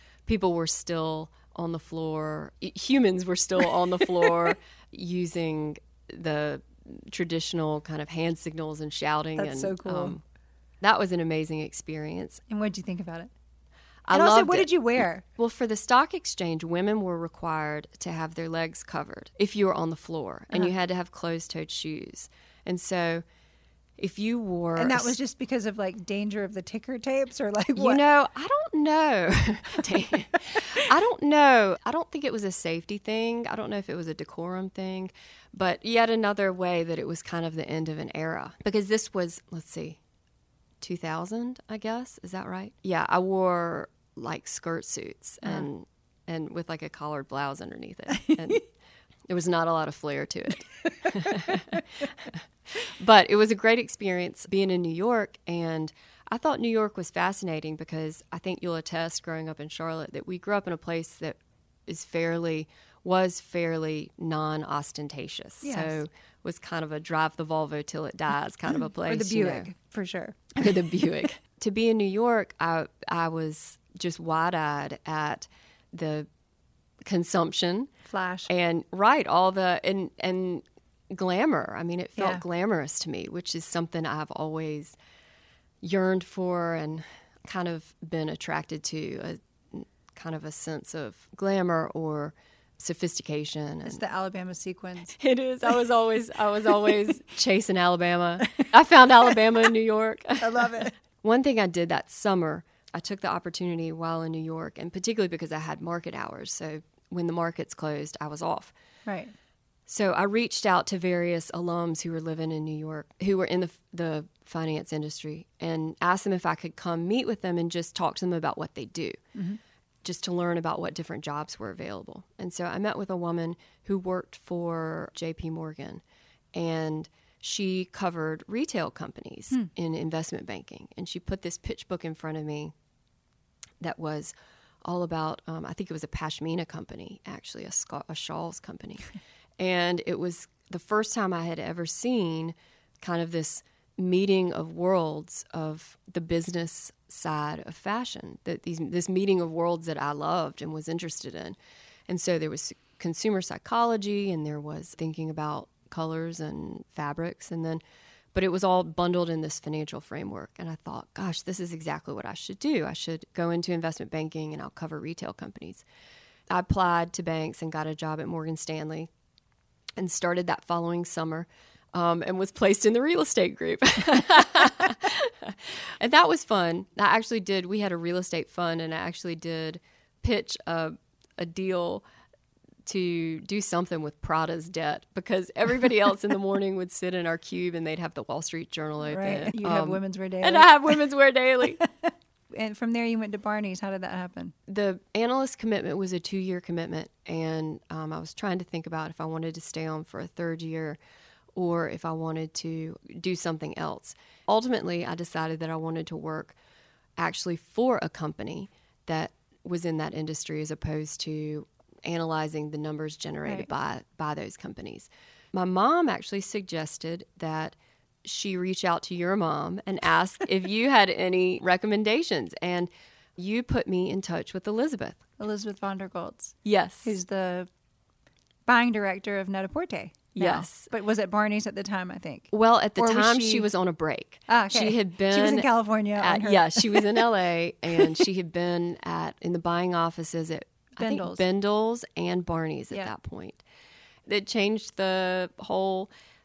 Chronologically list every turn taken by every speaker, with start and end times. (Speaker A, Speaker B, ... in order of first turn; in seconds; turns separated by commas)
Speaker A: 0.2-10.2, Speaker B: 9.3-10.2, Speaker A: 10.8-12.4, Speaker B: 12.5-13.3, Speaker A: 14.1-14.7, Speaker B: 14.1-15.2, Speaker A: 15.3-23.2, Speaker A: 24.0-25.1, Speaker B: 24.7-28.0, Speaker A: 27.8-40.0, Speaker A: 40.8-48.7, Speaker A: 49.3-69.7, Speaker B: 65.6-66.0, Speaker B: 69.0-70.8, Speaker A: 70.6-76.3, Speaker A: 77.0-77.9, Speaker B: 78.0-78.5, Speaker A: 78.5-85.0, Speaker B: 82.2-82.4, Speaker A: 85.8-94.0, Speaker B: 93.8-95.2, Speaker A: 95.1-108.7, Speaker B: 100.4-100.9, Speaker B: 109.0-109.3, Speaker A: 109.9-119.2, Speaker B: 119.3-119.6, Speaker A: 120.0-126.0, Speaker A: 126.5-132.7, Speaker A: 133.8-151.6, Speaker A: 152.1-157.8, Speaker A: 158.3-165.8, Speaker A: 166.5-169.1, Speaker A: 170.0-182.0, Speaker A: 182.8-191.8, Speaker B: 189.1-191.0, Speaker B: 191.8-194.5, Speaker A: 194.7-201.0, Speaker A: 201.5-206.6, Speaker A: 207.2-225.2, Speaker B: 225.4-227.7, Speaker A: 226.6-227.2, Speaker B: 228.7-233.7, Speaker A: 230.3-230.9, Speaker A: 232.5-243.6, Speaker B: 234.5-237.1, Speaker B: 241.0-241.4, Speaker A: 244.2-246.1